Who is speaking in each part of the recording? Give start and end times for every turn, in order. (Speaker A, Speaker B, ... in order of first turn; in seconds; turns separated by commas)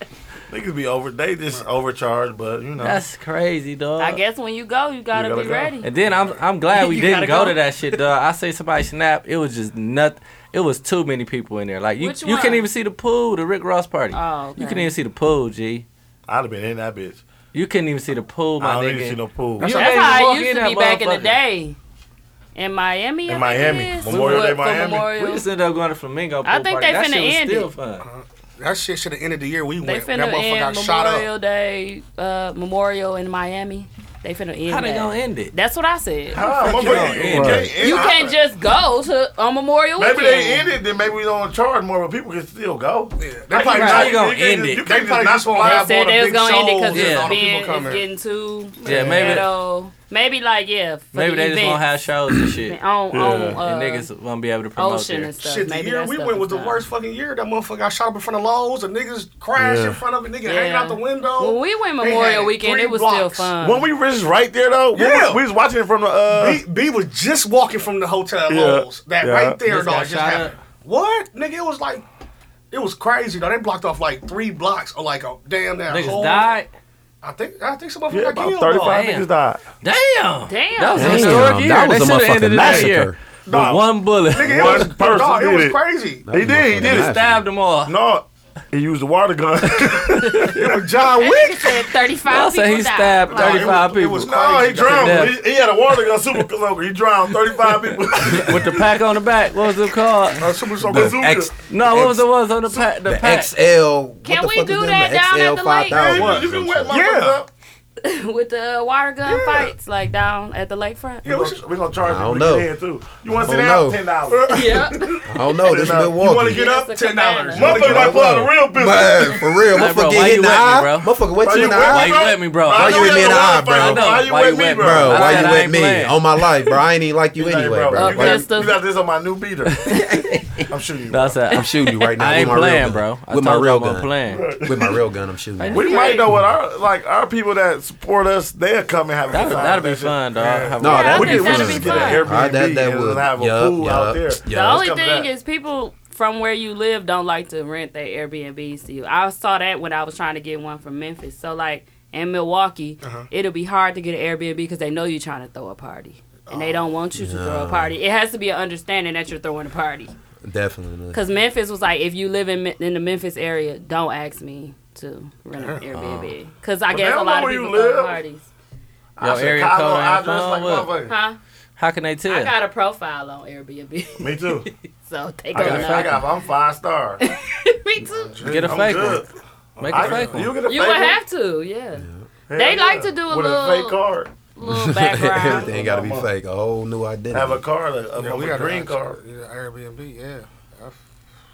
Speaker A: 0.5-3.0, Speaker B: 2.8-4.2, Speaker C: 4.0-5.9, Speaker A: 5.1-5.8, Speaker B: 5.8-15.8, Speaker C: 6.8-7.6, Speaker C: 12.0-12.7, Speaker C: 14.1-14.9, Speaker A: 16.3-17.2, Speaker B: 17.5-21.3, Speaker A: 18.6-19.8, Speaker D: 19.6-20.2, Speaker C: 19.6-21.8, Speaker C: 22.5-25.4, Speaker A: 23.3-25.1, Speaker B: 24.1-28.1, Speaker C: 26.4-27.7, Speaker D: 28.0-31.3, Speaker C: 29.8-36.4, Speaker B: 34.7-35.5, Speaker A: 36.3-38.4, Speaker D: 36.4-37.4, Speaker B: 36.6-37.7, Speaker E: 37.3-37.7, Speaker C: 37.8-40.7, Speaker A: 40.0-46.0, Speaker D: 43.2-44.3, Speaker B: 43.6-44.8, Speaker C: 43.6-44.1, Speaker D: 44.8-48.0, Speaker C: 45.6-51.9, Speaker B: 46.9-47.4, Speaker A: 48.8-49.4, Speaker B: 48.8-49.5, Speaker B: 51.1-55.3, Speaker C: 52.7-54.1, Speaker A: 53.1-53.6, Speaker C: 54.8-56.8, Speaker D: 55.4-63.5, Speaker A: 59.5-60.0, Speaker C: 60.4-63.9, Speaker A: 63.6-66.6, Speaker D: 64.9-65.4, Speaker D: 66.3-72.0, Speaker A: 68.5-69.6, Speaker B: 69.7-70.5, Speaker D: 72.7-76.5, Speaker B: 75.9-76.7, Speaker D: 77.2-79.0, Speaker A: 78.1-79.6, Speaker B: 78.9-79.3, Speaker B: 79.8-84.9, Speaker C: 80.5-81.4, Speaker E: 81.0-83.2, Speaker D: 82.6-82.9, Speaker A: 83.5-87.1, Speaker D: 84.3-86.3, Speaker E: 86.3-87.4, Speaker B: 86.8-87.9, Speaker A: 87.9-90.6, Speaker B: 89.7-90.7, Speaker D: 90.5-91.8, Speaker C: 91.2-93.8, Speaker B: 92.3-94.3, Speaker D: 93.3-95.3, Speaker A: 93.5-98.8, Speaker B: 94.9-95.4, Speaker B: 98.3-100.5, Speaker D: 100.3-101.4, Speaker A: 100.8-102.9, Speaker E: 100.9-102.1, Speaker B: 101.7-103.5, Speaker E: 103.0-107.0, Speaker C: 104.2-106.0, Speaker A: 105.9-107.5, Speaker D: 106.1-107.4, Speaker C: 108.0-111.2, Speaker D: 111.2-111.6, Speaker A: 111.2-116.2, Speaker E: 112.0-112.7, Speaker E: 113.3-114.0, Speaker D: 114.3-114.8, Speaker C: 114.5-115.2, Speaker E: 115.3-116.6, Speaker D: 115.9-118.5, Speaker C: 116.5-117.7, Speaker A: 117.5-119.7, Speaker E: 117.6-124.2, Speaker B: 119.7-126.2, Speaker A: 121.4-125.7, Speaker E: 124.8-128.5, Speaker A: 127.4-129.9, Speaker C: 127.9-128.8, Speaker B: 129.7-130.4, Speaker A: 130.7-131.4, Speaker B: 131.1-134.4, Speaker E: 131.5-135.8, Speaker A: 134.3-135.0, Speaker B: 135.6-136.3, Speaker A: 135.7-140.2, Speaker C: 135.7-136.2, Speaker B: 139.3-142.1, Speaker D: 140.3-140.8, Speaker E: 140.8-144.8, Speaker C: 140.8-142.2, Speaker A: 141.1-145.3, Speaker C: 144.5-160.1, Speaker D: 153.0-153.3, Speaker D: 156.5-156.8, Speaker E: 157.2-157.9, Speaker E: 160.4-161.2, Speaker C: 161.1-168.5, Speaker D: 165.6-165.9, Speaker B: 165.9-166.3, Speaker A: 166.9-168.2, Speaker A: 169.2-171.1, Speaker B: 169.2-170.9, Speaker C: 171.1-171.4, Speaker B: 171.8-172.5, Speaker C: 172.3-176.1, Speaker A: 174.2-174.7, Speaker A: 175.5-177.2, Speaker B: 175.5-176.2, Speaker C: 177.2-178.3, Speaker D: 178.1-179.1, Speaker A: 178.4-179.3, Speaker B: 178.4-179.2, Speaker D: 179.8-180.4, Speaker B: 179.8-180.5, Speaker A: 179.9-181.2, Speaker C: 180.6-184.0, Speaker E: 181.9-182.2, Speaker A: 182.5-184.3, Speaker C: 184.5-185.7, Speaker E: 184.6-187.6, Speaker A: 185.4-186.3, Speaker A: 187.3-189.2, Speaker D: 188.2-190.9